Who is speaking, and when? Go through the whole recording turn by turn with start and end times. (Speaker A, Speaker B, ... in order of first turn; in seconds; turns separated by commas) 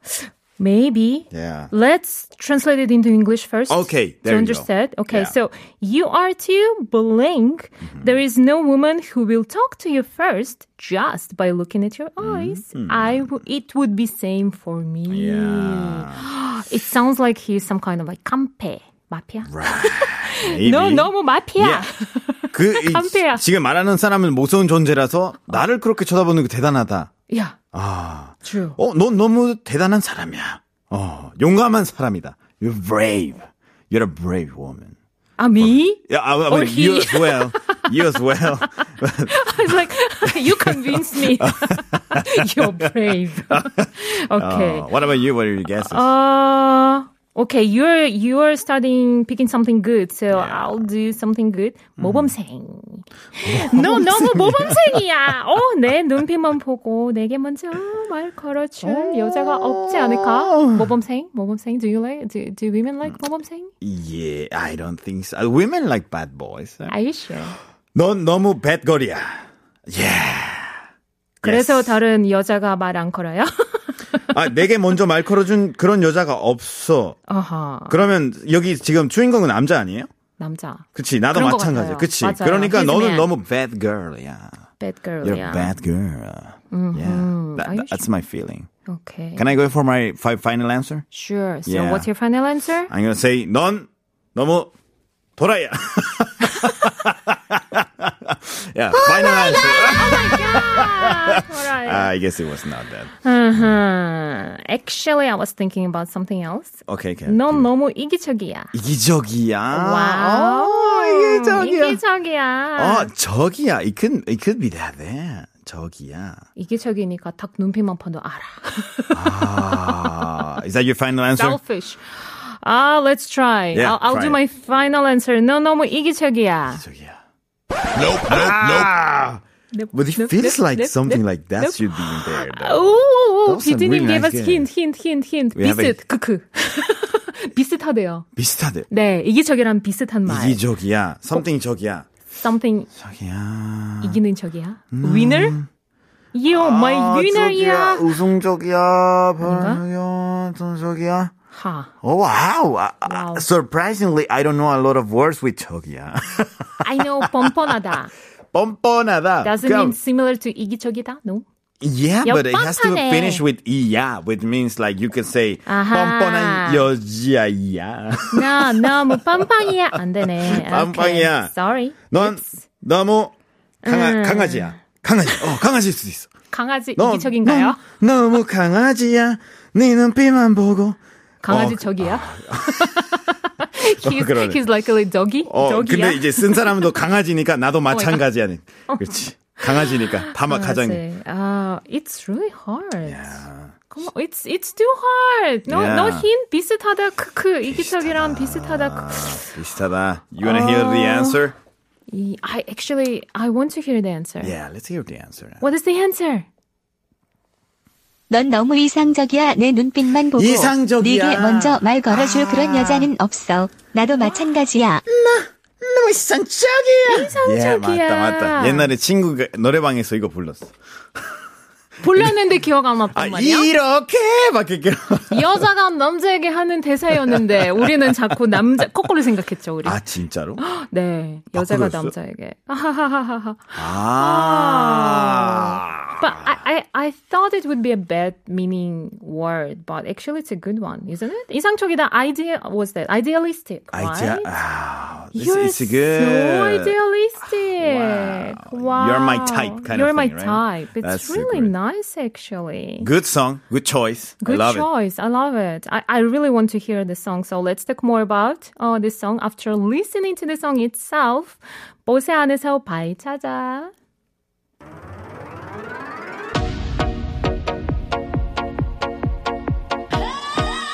Speaker A: 0.2-23.4, Speaker B: 1.3-1.7, Speaker B: 3.7-5.3, Speaker B: 12.2-13.3, Speaker B: 15.1-16.2, Speaker B: 19.4-21.9, Speaker B: 22.5-27.1, Speaker A: 27.3-27.6, Speaker B: 27.7-34.9, Speaker A: 28.4-28.8, Speaker A: 35.4-38.2, Speaker B: 35.6-46.1, Speaker A: 39.3-44.9, Speaker A: 45.8-63.7, Speaker B: 50.3-50.8, Speaker B: 52.0-52.3, Speaker B: 53.4-55.0, Speaker B: 58.8-61.0, Speaker B: 63.8-66.9, Speaker A: 66.9-67.5, Speaker B: 67.9-70.8, Speaker A: 71.4-74.3, Speaker B: 71.4-72.0, Speaker B: 74.3-77.2, Speaker A: 77.3-78.0, Speaker B: 77.9-80.1, Speaker A: 80.4-83.3, Speaker B: 80.9-84.6, Speaker A: 84.8-85.7, Speaker B: 85.2-88.7, Speaker A: 86.7-88.1, Speaker A: 88.9-89.4, Speaker B: 89.3-91.0, Speaker A: 91.1-92.9, Speaker B: 91.7-92.1, Speaker B: 92.9-94.7, Speaker B: 95.4-103.8, Speaker A: 99.0-102.1, Speaker A: 103.2-108.7, Speaker B: 106.9-107.7, Speaker B: 108.7-112.0, Speaker A: 109.7-113.1, Speaker B: 112.8-116.4, Speaker A: 116.5-120.1, Speaker B: 119.1-121.6, Speaker A: 121.3-126.8, Speaker B: 123.7-124.4, Speaker B: 126.7-127.2, Speaker B: 128.0-129.4, Speaker A: 129.7-138.2, Speaker B: 129.9-134.7, Speaker B: 135.5-136.0, Speaker B: 138.3-138.9, Speaker A: 138.9-140.6, Speaker B: 140.2-142.1, Speaker A: 142.3-142.9, Speaker B: 142.9-144.2, Speaker A: 144.0-145.6, Speaker B: 144.9-145.7, Speaker A: 146.3-148.2, Speaker B: 146.5-151.3, Speaker A: 149.4-149.8, Speaker A: 151.5-151.9, Speaker B: 152.0-157.5, Speaker A: 153.1-153.4, Speaker A: 156.8-158.1, Speaker B: 158.5-159.9, Speaker A: 159.4-161.4, Speaker B: 161.8-171.5, Speaker A: 162.2-163.4, Speaker A: 165.7-166.9, Speaker A: 168.3-172.6, Speaker B: 172.1-173.3, Speaker A: 173.8-174.8, Speaker B: 173.8-176.3, Speaker A: 176.5-177.8, Speaker B: 176.9-183.2, Speaker A: 181.4-186.8, Speaker B: 183.9-184.7, Speaker B: 185.4-191.0, Speaker A: 187.9-188.2, Speaker A: 188.9-189.1, Speaker A: 189.7-199.3, Speaker B: 193.0-193.7, Speaker B: 195.7-196.3, Speaker B: 197.6-201.5, Speaker A: 200.4-201.4, Speaker A: 202.1-204.5, Speaker B: 204.4-205.6, Speaker A: 205.6-206.4, Speaker C: 208.3-215.0, Speaker B: 210.3-213.1, Speaker B: 215.1-220.7, Speaker A: 217.1-218.9, Speaker A: 222.0-223.7, Speaker B: 222.1-222.3, Speaker B: 223.1-225.7, Speaker A: 225.3-230.0, Speaker B: 227.1-228.8, Speaker B: 229.8-230.6, Speaker A: 230.6-244.5, Speaker B: 231.5-232.1, Speaker B: 233.7-236.5, Speaker B: 243.9-251.7, Speaker A: 245.3-253.1, Speaker B: 253.0-254.9, Speaker A: 254.4-263.9